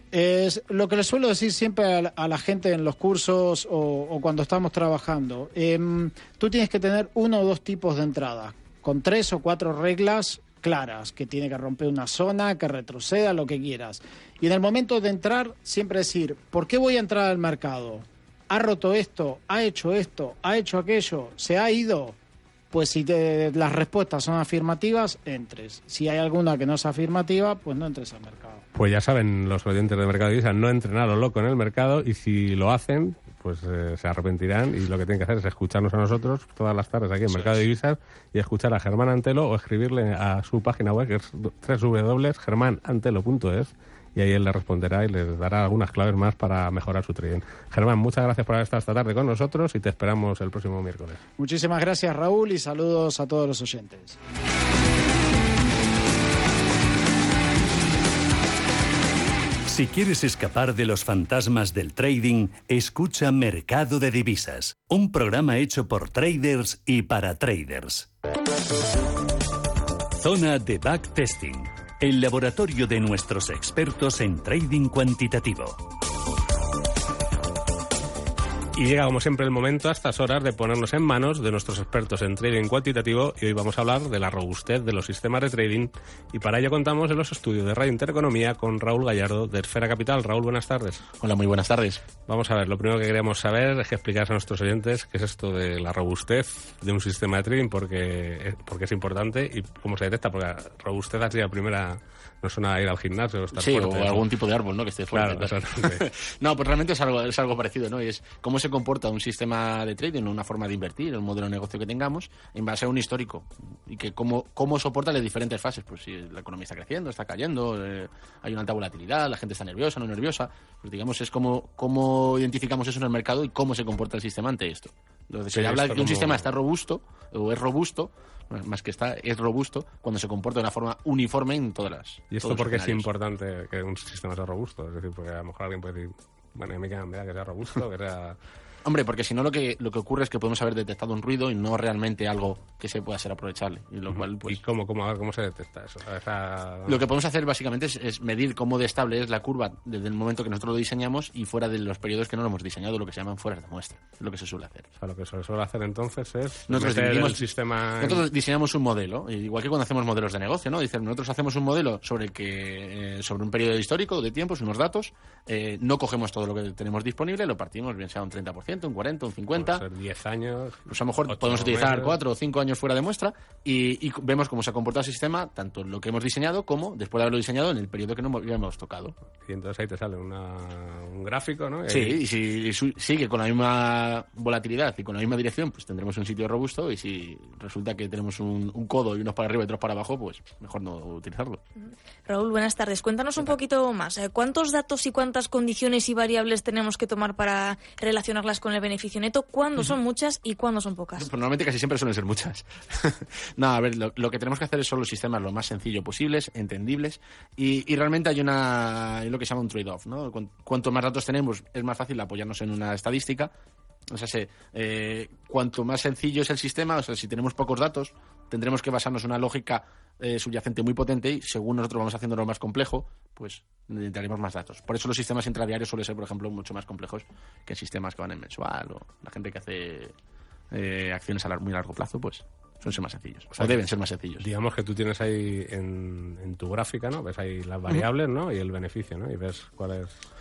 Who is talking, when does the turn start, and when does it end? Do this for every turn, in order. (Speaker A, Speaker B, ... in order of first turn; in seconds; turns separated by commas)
Speaker A: 0.1-22.1, Speaker A: 22.7-28.6, Speaker B: 28.7-51.2, Speaker C: 37.3-37.6, Speaker A: 51.4-54.2, Speaker D: 59.7-68.1, Speaker D: 70.2-75.8, Speaker B: 78.8-91.0, Speaker C: 91.2-92.0, Speaker B: 92.3-104.2, Speaker C: 103.5-133.1, Speaker B: 105.1-106.0, Speaker B: 125.5-126.4, Speaker B: 132.3-138.4, Speaker C: 138.8-144.6, Speaker B: 144.1-147.0, Speaker C: 146.9-154.9, Speaker B: 155.0-158.2, Speaker C: 156.7-157.4, Speaker C: 158.0-169.8, Speaker B: 169.6-172.2, Speaker C: 170.9-179.1, Speaker B: 179.4-182.2, Speaker C: 181.9-191.6, Speaker E: 192.2-201.3, Speaker C: 201.2-213.5, Speaker C: 214.1-230.1, Speaker C: 230.7-234.4, Speaker B: 233.5-233.8, Speaker B: 234.4-240.1